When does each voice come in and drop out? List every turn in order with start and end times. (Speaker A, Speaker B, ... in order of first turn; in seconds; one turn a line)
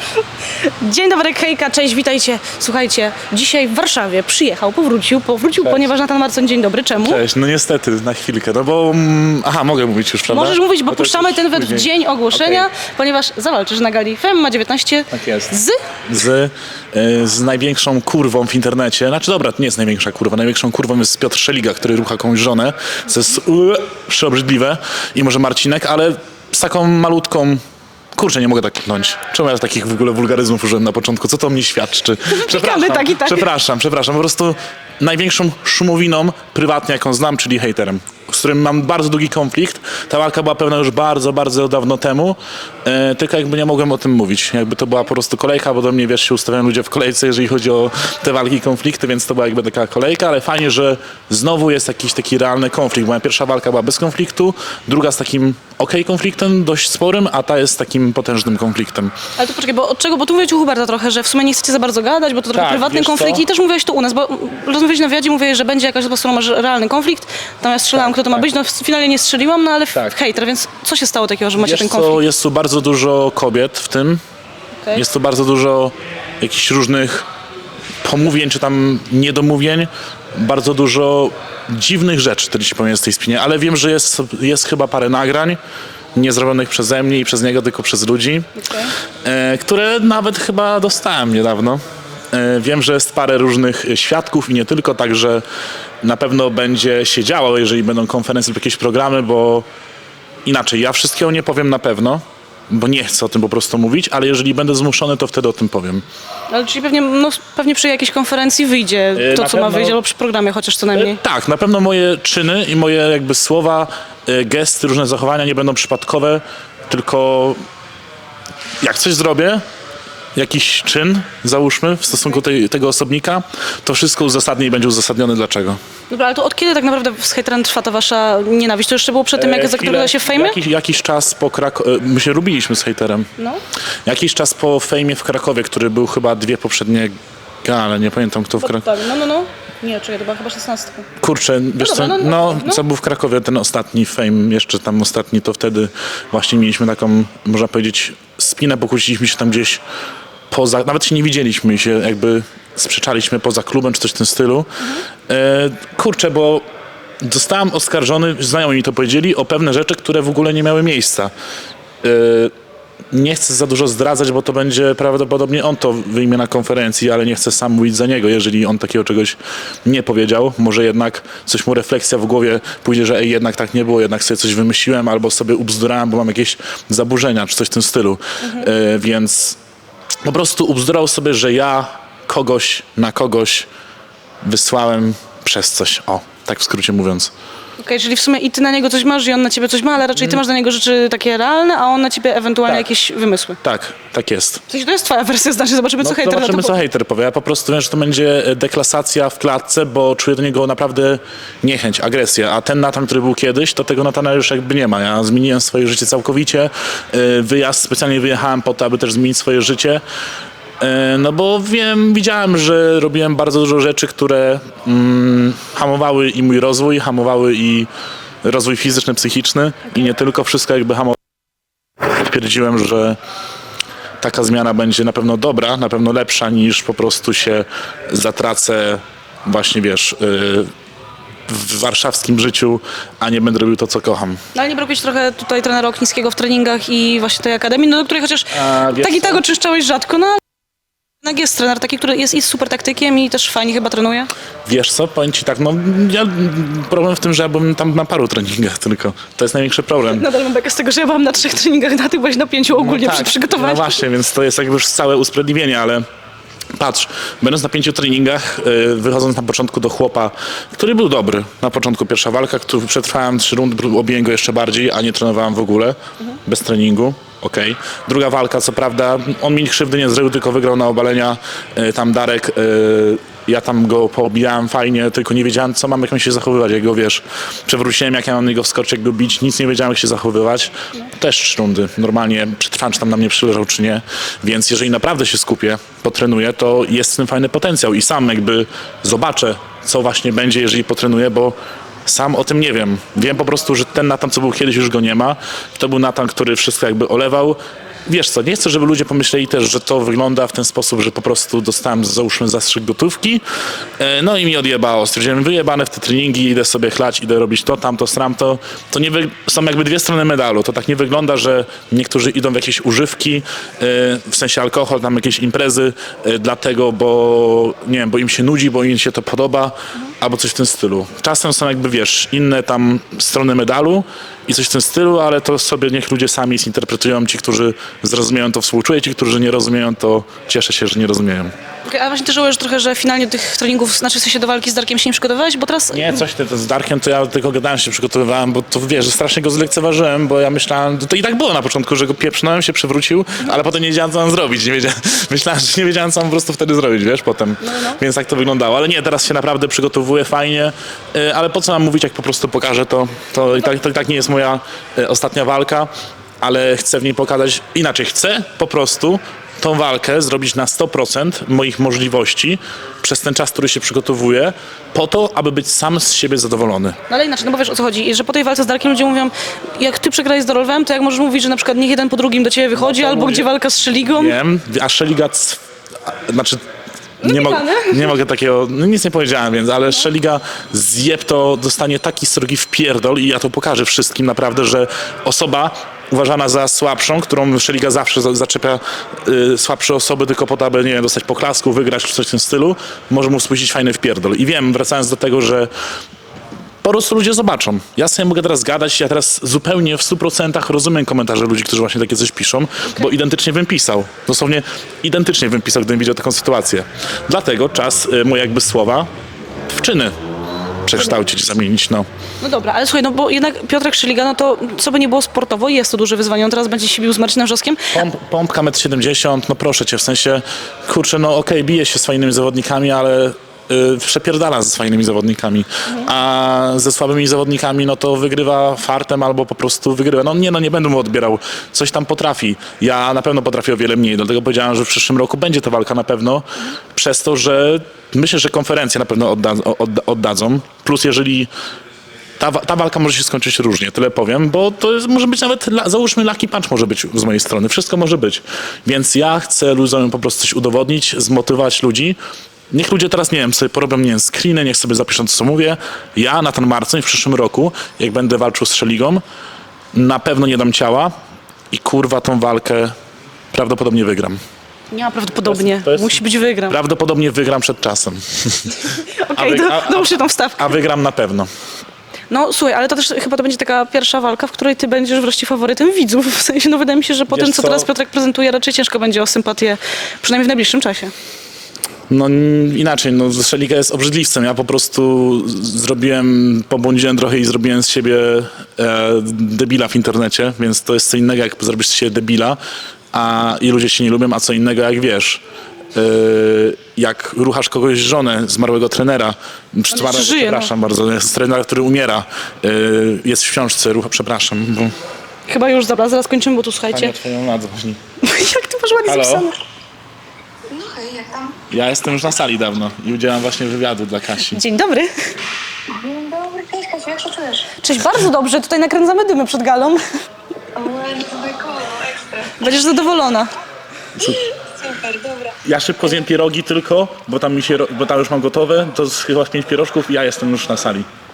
Speaker A: 0.4-7.2
Speaker B: 5.6-5.9
Speaker B: 7.0-12.7
Speaker A: 10.3-15.8
Speaker B: 15.1-15.5
Speaker B: 16.1-27.6
Speaker B: 28.1-59.1
Speaker A: 32.3-33.5
Speaker A: 59.4-72.2
Speaker B: 62.5-63.4
Speaker B: 67.9-68.5
Speaker B: 71.6-74.2
Speaker B: 74.9-77.2
Speaker B: 78.0-85.6
Speaker B: 86.1-88.5
Speaker A: 88.6-88.9
Speaker B: 89.2-91.8
Speaker B: 92.3-95.4
Speaker B: 96.0-99.7
Speaker B: 100.4-106.0
Speaker A: 106.5-111.2
Speaker B: 109.1-110.0
Speaker B: 110.9-117.6
Speaker B: 118.8-119.6
Speaker B: 120.3-125.8
Speaker A: 126.1-130.6
Speaker B: 129.3-133.3
Speaker B: 134.0-138.9
Speaker A: 138.6-141.1
Speaker B: 141.2-149.8
Speaker A: 141.8-142.8
Speaker B: 150.5-156.6
Speaker B: 157.2-161.3
Speaker B: 162.0-162.5
Speaker B: 163.1-179.6
Speaker A: 178.4-178.7
Speaker B: 180.2-183.7
Speaker B: 184.4-187.3
Speaker A: 187.8-193.6
Speaker B: 190.1-190.4
Speaker B: 193.6-194.6
Speaker A: 194.7-196.8
Speaker B: 196.0-210.0
Speaker B: 210.8-217.9
Speaker B: 218.4-221.2
Speaker B: 222.0-223.2
Speaker B: 224.2-230.7
Speaker B: 231.5-234.4
Speaker A: 234.5-240.4
Speaker B: 238.5-239.4
Speaker A: 241.2-244.3
Speaker B: 244.7-250.2
Speaker A: 250.1-254.0
Speaker B: 252.7-256.0
Speaker B: 256.7-291.5
Speaker B: 292.1-303.4
Speaker B: 304.0-331.5
Speaker A: 331.8-336.2
Speaker B: 335.9-355.9
Speaker A: 347.6-348.0
Speaker B: 356.4-367.0
Speaker A: 367.1-374.3
Speaker B: 372.8-373.5
Speaker B: 374.1-376.6
Speaker A: 377.2-378.0
Speaker B: 377.2-395.7
Speaker B: 396.8-409.1
Speaker B: 409.7-410.1
Speaker B: 410.9-412.1
Speaker A: 412.4-417.9
Speaker B: 417.9-441.5
Speaker B: 442.4-452.2
Speaker B: 452.7-459.2
Speaker B: 459.9-461.1
Speaker B: 461.7-462.9
Speaker B: 463.5-464.4
Speaker A: 464.9-466.8
Speaker B: 465.4-471.5
Speaker A: 469.0-470.8
Speaker A: 472.3-481.1
Speaker B: 477.3-477.9
Speaker B: 482.1-492.6
Speaker B: 493.1-495.4
Speaker B: 495.9-504.9
Speaker A: 499.9-500.7
Speaker A: 505.5-507.1
Speaker B: 506.9-508.0
Speaker A: 508.2-509.6
Speaker B: 509.0-509.5
Speaker C: 510.7-511.6
Speaker B: 511.7-514.6
Speaker A: 514.5-515.1
Speaker C: 515.9-517.6
Speaker A: 517.7-520.0
Speaker C: 520.8-522.5
Speaker A: 522.5-523.5
Speaker B: 524.2-524.4
Speaker C: 524.7-525.5
Speaker B: 525.6-531.0